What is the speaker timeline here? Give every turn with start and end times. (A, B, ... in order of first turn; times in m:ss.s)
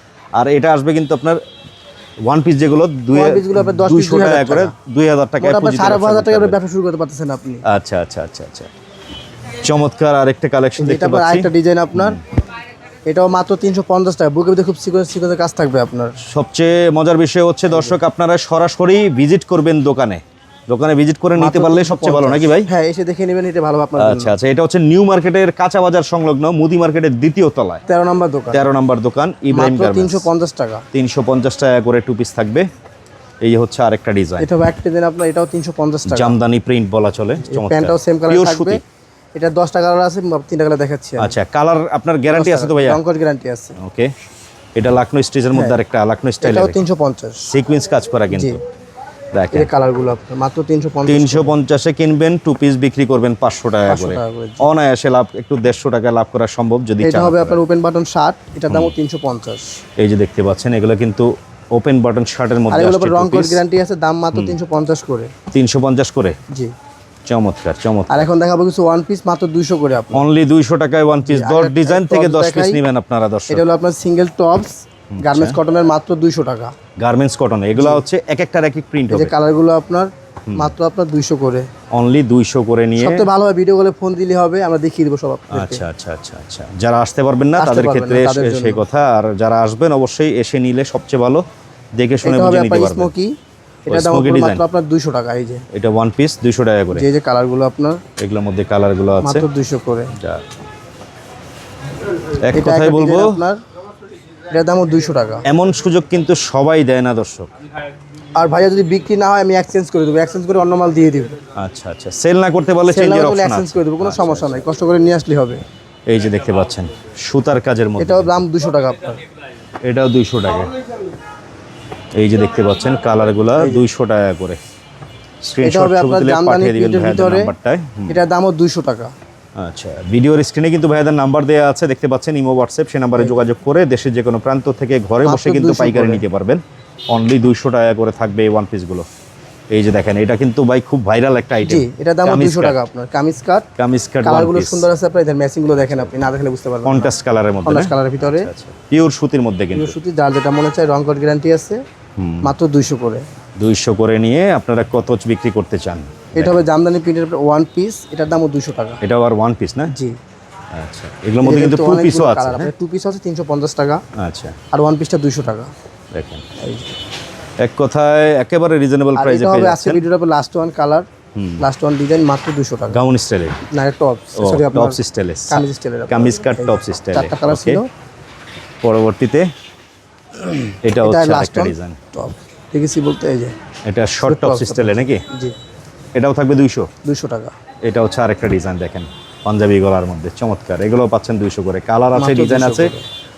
0:00.4-0:01.4 A
0:02.2-0:06.6 A
0:03.1-0:04.7 B
0:05.4-0:07.6 B
0:07.6-0:08.7 A
0:09.6-0:12.2 A
0:10.8-0:12.2 B
0:13.1-0:16.2 B
0:16.2-0:22.7 A
0:17.7-0:18.0 B
0:21.4-0:24.3 B
0:24.0-0:27.8 A
0:27.9-0:28.7 B
0:28.5-0:30.3 A
0:29.5-0:30.8 B
0:30.9-0:32.6 A
0:33.4-0:34.5 A
0:34.4-0:36.4 B
0:36.1-0:38.8 A
0:37.4-0:38.8 B
0:39.4-0:41.4 B
0:41.2-0:43.0 A
0:42.3-0:43.8 B
0:43.8-0:44.1 A
0:44.8-0:46.8 A
0:45.5-0:45.8 B
0:46.4-0:47.4 B
0:47.4-0:48.6 A
0:48.3-0:48.6 B
0:49.3-0:49.7 A
0:49.5-0:51.5 B
0:51.0-0:57.6 A
0:53.9-0:54.6 B
0:57.0-0:59.6 B
1:00.0-1:03.6 A
1:02.7-1:05.3 B
1:05.5-1:06.4 A
1:07.3-1:08.3 A
1:08.1-1:10.2 B
1:10.1-1:13.6 A
1:11.2-1:12.8 B
1:13.5-1:16.7 B
1:15.1-1:15.6 A
1:17.0-1:19.3 A
1:17.8-1:18.0 B
1:19.1-1:21.7 B
1:20.5-1:20.7 A
1:21.9-1:23.3 A
1:23.0-1:25.8 B
1:25.5-1:31.4 A
1:27.6-1:28.8 B
1:32.0-1:33.1 A
1:32.2-1:33.3 B
1:33.9-1:35.6 B
1:33.9-1:34.6 A
1:35.7-1:37.0 A
1:36.9-1:38.0 B
1:38.2-1:39.4 A
1:39.2-1:40.1 B
1:40.2-1:40.4 A
1:42.4-1:43.4 A
1:42.5-1:43.6 B
1:44.5-1:45.4 B
1:45.4-1:47.5 A
1:48.4-1:51.3 B
1:51.6-1:54.6 A
1:52.9-1:55.6 B
1:56.1-1:58.4 A
1:58.0-1:59.2 B
1:59.8-2:00.7 A
2:02.2-2:04.6 A
2:03.6-2:03.8 B
2:05.4-2:08.2 A
2:05.6-2:07.5 B
2:08.1-2:09.1 B
2:09.6-2:19.0 A
2:13.2-2:13.4 B
2:15.2-2:16.2 B
2:19.7-2:22.8 A
2:21.6-2:23.7 B
2:23.8-2:24.9 A
2:24.2-2:27.1 B
2:25.7-2:26.3 A
2:26.8-2:30.0 A
2:27.6-2:28.5 B
2:29.7-2:31.8 B
2:32.2-2:32.5 A
2:32.4-2:33.2 B
2:33.6-2:36.6 A
2:36.3-2:39.0 B
2:39.0-2:39.9 A
2:39.9-2:40.2 B
2:40.7-2:42.7 A
2:41.4-2:44.0 B
2:44.2-2:44.6 A
2:44.7-2:45.7 B
2:46.1-2:46.4 A
2:46.6-2:46.9 B
2:47.6-2:50.0 A
2:49.2-2:51.0 B
2:51.3-2:51.6 A
2:51.6-2:53.0 B
2:52.9-2:53.7 A
2:53.7-2:57.9 B
2:54.4-2:57.8 A
2:58.8-2:59.5 A
3:00.8-3:02.0 A
3:00.9-3:03.5 B
3:03.9-3:05.2 A
3:04.2-3:05.5 B
3:06.2-3:06.9 A
3:07.0-3:07.5 B
3:07.8-3:12.9 A
3:12.1-3:13.1 B